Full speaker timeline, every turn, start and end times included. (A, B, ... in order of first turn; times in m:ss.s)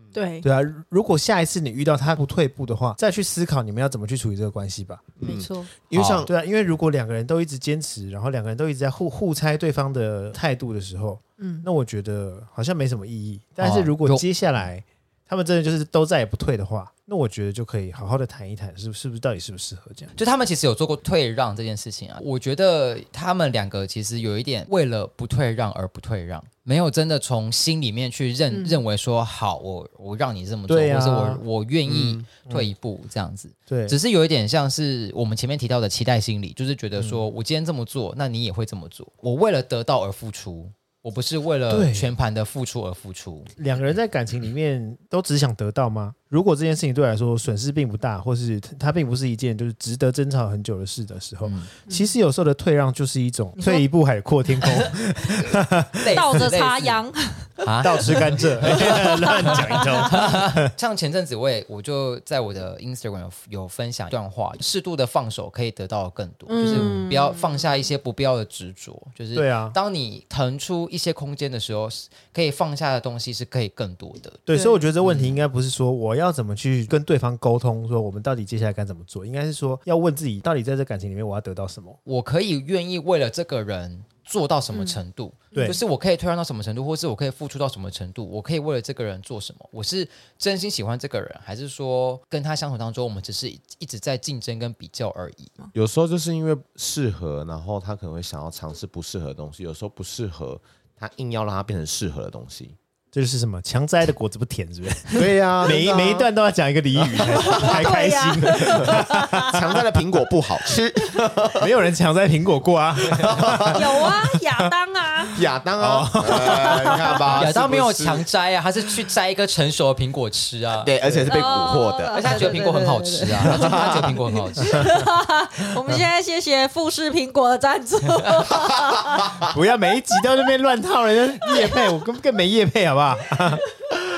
0:00.1-0:00.5 A
0:00.4-0:05.1 B
0:05.2-0:06.3 C
0:05.2-0:05.7 A
0:05.9-0:06.3 D
0:06.2-0:20.1 B
0:11.4-0:11.6 A
0:13.6-0:14.2 D
0:20.2-0:43.5 D
0:28.5-0:28.8 A
0:30.7-0:31.4 B
0:31.9-0:32.3 C
0:32.5-0:32.7 B
0:33.7-0:34.0 B
0:41.7-0:42.1 B
0:43.6-0:56.4 B
0:51.4-0:51.7 D
0:53.6-0:53.8 A
0:55.4-0:57.0 D
0:56.1-0:58.1 A
0:57.6-1:14.4 D
0:57.8-1:00.7 B
0:58.7-1:00.1 A
1:06.5-1:07.6 A
1:06.7-1:07.1 B
1:09.3-1:09.8 B
1:14.5-1:22.0 B
1:14.5-1:14.8 A
1:15.0-1:15.4 D
1:22.0-1:35.5 D
1:24.7-1:25.0 A
1:25.5-1:25.8 A
1:25.5-1:25.8 B
1:35.7-1:42.8 C
1:43.1-1:49.7 B
1:45.1-1:46.3 C
1:47.4-1:49.6 A
1:48.7-1:51.7 C
1:51.6-1:54.7 B
1:53.1-1:53.8 C
1:53.7-1:55.3 A
1:55.2-1:57.3 B
1:55.3-1:58.2 C
1:56.9-1:57.2 A
1:57.4-2:00.9 D
2:00.8-2:02.6 C
2:01.0-2:01.4 B
2:01.3-2:09.3 A
2:02.1-2:04.9 D
2:03.5-2:04.1 C
2:04.6-2:05.0 B
2:09.4-2:13.7 B
2:11.5-2:11.8 A